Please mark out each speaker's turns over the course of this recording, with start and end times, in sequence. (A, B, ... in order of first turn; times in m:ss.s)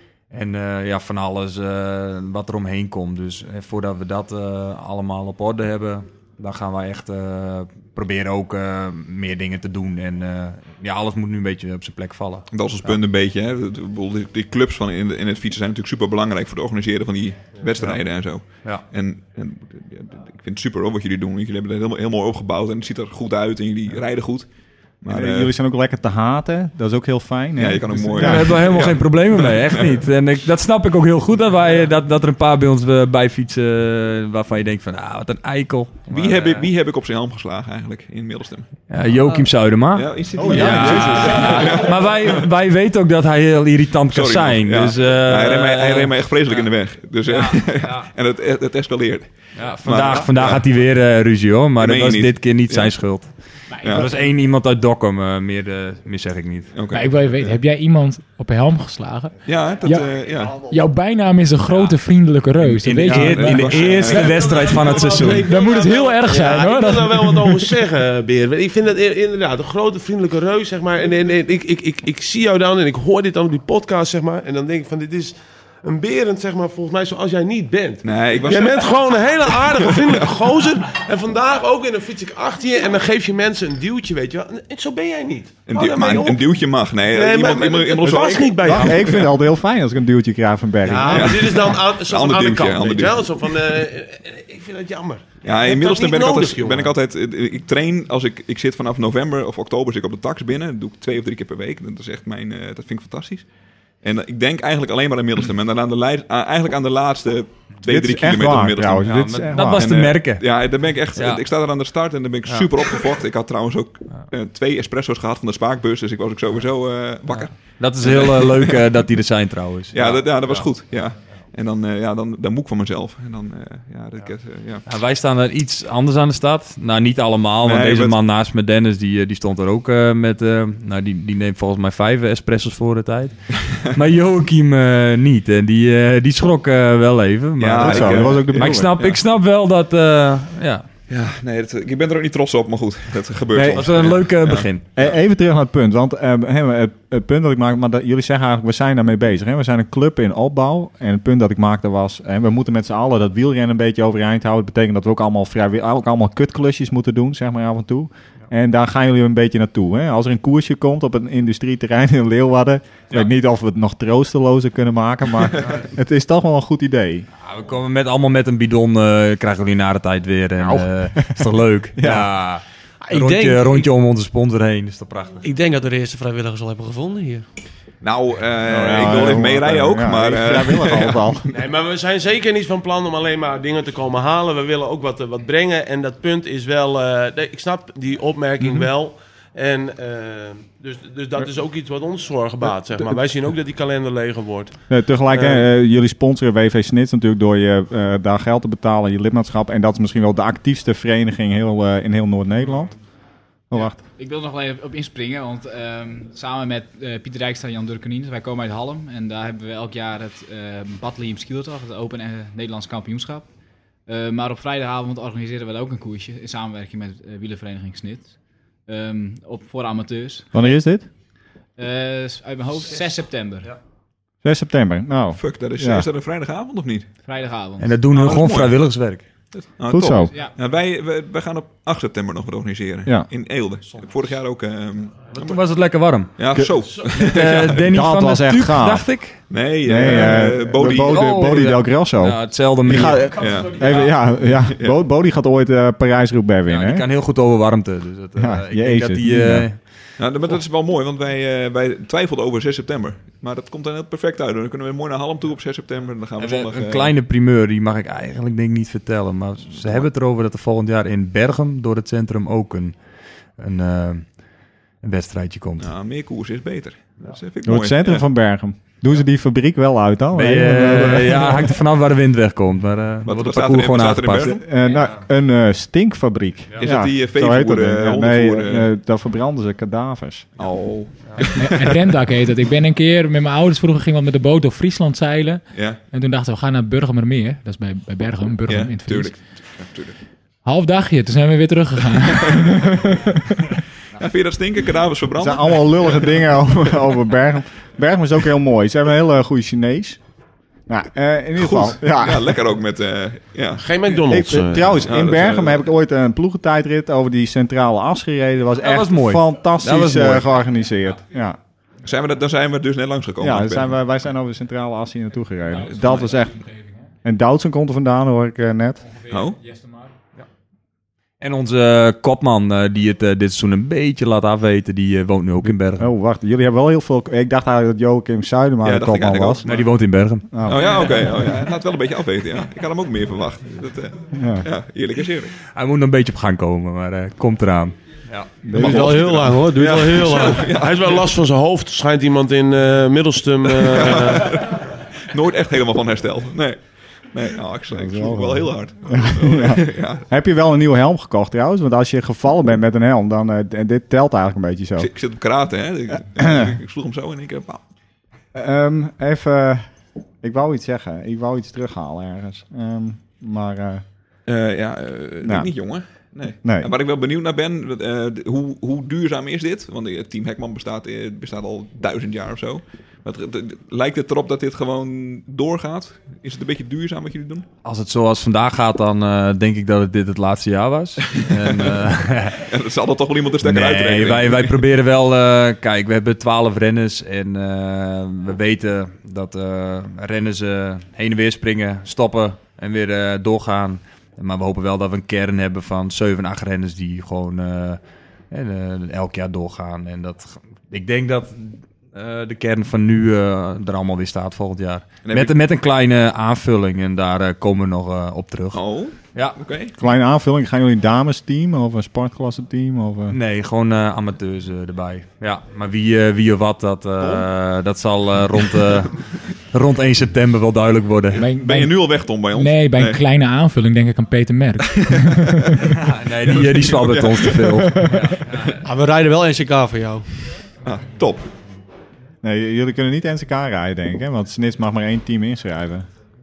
0:00.3-0:13.0 A
0:12.5-0:25.5 B
0:17.8-0:18.8 A
0:25.0-0:28.6 C
0:27.6-0:30.0 B
0:28.1-0:36.7 A
0:36.1-0:38.7 B
0:38.9-0:46.7 A
0:39.9-0:42.4 B
0:40.4-0:41.5 C
0:44.1-0:50.7 B
0:47.2-0:48.1 A
0:49.6-0:56.7 A
0:51.8-0:53.0 B
0:53.8-0:54.1 B
0:56.7-0:57.5 B
0:56.9-1:04.2 D
0:59.4-1:00.7 B
1:02.6-1:05.5 A
1:03.0-1:04.4 B
1:03.8-1:26.5 E
1:05.3-1:07.8 D
1:18.0-1:20.5 B
1:25.7-1:29.2 B
1:27.1-1:29.3 E
1:28.6-1:31.6 C
1:30.8-1:37.0 E
1:31.0-1:33.3 B
1:35.4-1:43.5 B
1:44.0-1:49.2 B
1:47.9-1:50.1 C
1:49.0-1:50.5 A
1:49.7-1:58.8 B
1:51.2-1:51.4 A
1:57.6-2:00.7 A
1:59.9-2:04.8 B
2:04.9-2:20.9 A
2:07.6-2:08.2 B
2:17.6-2:19.2 B
2:17.8-2:19.0 C
2:21.1-2:25.1 B
2:23.5-2:24.2 C
2:23.6-2:24.9 A
2:24.9-2:47.3 C
2:47.4-2:55.4 A
2:50.6-2:52.3 C
2:53.0-2:53.9 F
2:55.4-2:57.4 F
2:58.0-3:01.5 B
2:58.7-3:01.4 C
3:01.5-3:14.8 E
3:14.9-3:23.0 C
3:15.3-3:15.7 E
3:23.7-3:24.0 C
3:24.2-3:33.5 G
3:34.1-3:38.4 G
3:38.9-3:40.7 G
3:40.5-3:41.1 C
3:41.8-3:43.8 G
3:44.4-3:46.1 C
3:45.4-3:47.1 B
3:47.2-3:48.0 G
3:47.8-3:49.3 A
3:48.1-3:48.8 B
3:49.5-3:55.6 B
3:49.9-3:50.3 C
3:55.3-3:56.4 A
3:56.4-3:57.9 B
3:56.5-3:56.8 C
3:57.1-3:59.4 A
3:57.8-3:59.2 C
3:59.5-4:01.5 B
3:59.8-4:07.1 C
4:00.8-4:03.3 A
4:03.1-4:05.0 B
4:06.7-4:09.9 A
4:08.4-4:09.7 C
4:10.2-4:17.1 B
4:16.4-4:23.0 A
4:19.8-4:20.0 B
4:23.6-4:24.4 A
4:25.0-4:25.9 A
4:25.8-4:28.2 B
4:27.6-4:31.8 C
4:30.3-4:34.6 A
4:33.2-4:34.6 B
4:34.4-4:40.6 C
4:36.8-4:38.9 B
4:40.6-4:42.1 B
4:41.6-4:49.4 D
4:45.7-4:46.0 B
4:48.7-4:50.2 B
4:50.6-4:53.7 D
4:54.1-4:56.4 B
4:55.4-5:00.2 C
5:00.9-5:02.6 C
5:01.6-5:03.9 B
5:03.8-5:05.0 E
5:04.3-5:11.6 C
5:05.0-5:05.8 B
5:08.8-5:10.5 A
5:12.0-5:13.9 B
5:13.4-5:16.6 C
5:15.8-5:17.0 D
5:17.2-5:19.0 C
5:19.3-5:20.1 D
5:19.3-5:19.6 B
5:21.4-5:26.1 A
5:26.0-5:29.7 C
5:28.8-5:29.8 B
5:29.6-5:31.0 A
5:30.5-5:31.2 C
5:30.6-5:35.6 B
5:34.3-5:34.7 C
5:35.7-5:38.5 A
5:38.6-5:39.2 C
5:38.7-5:40.7 F
5:38.8-5:41.1 B
5:40.5-5:44.6 E
5:43.8-5:50.2 B
5:47.9-5:55.1 C
5:55.0-5:57.8 B
5:56.4-5:56.7 C
5:58.5-5:59.8 C
6:00.4-6:04.0 C
6:04.5-6:17.7 B
6:05.4-6:05.7 C
6:06.6-6:06.9 C
6:17.8-6:22.6 A
6:21.3-6:24.8 B
6:23.6-6:38.0 A
6:38.5-6:49.6 A
6:45.2-6:45.5 B
6:48.7-6:50.0 B
6:50.0-6:53.4 C
6:53.3-7:01.4 A
6:57.2-6:57.5 B
7:01.4-7:05.9 D
7:01.6-7:03.2 B
7:04.9-7:05.7 B
7:06.0-7:08.6 A
7:06.5-7:07.8 B
7:07.9-7:08.3 D
7:08.4-7:08.7 B
7:08.8-7:10.3 F
7:10.8-7:11.5 B
7:12.4-7:16.1 C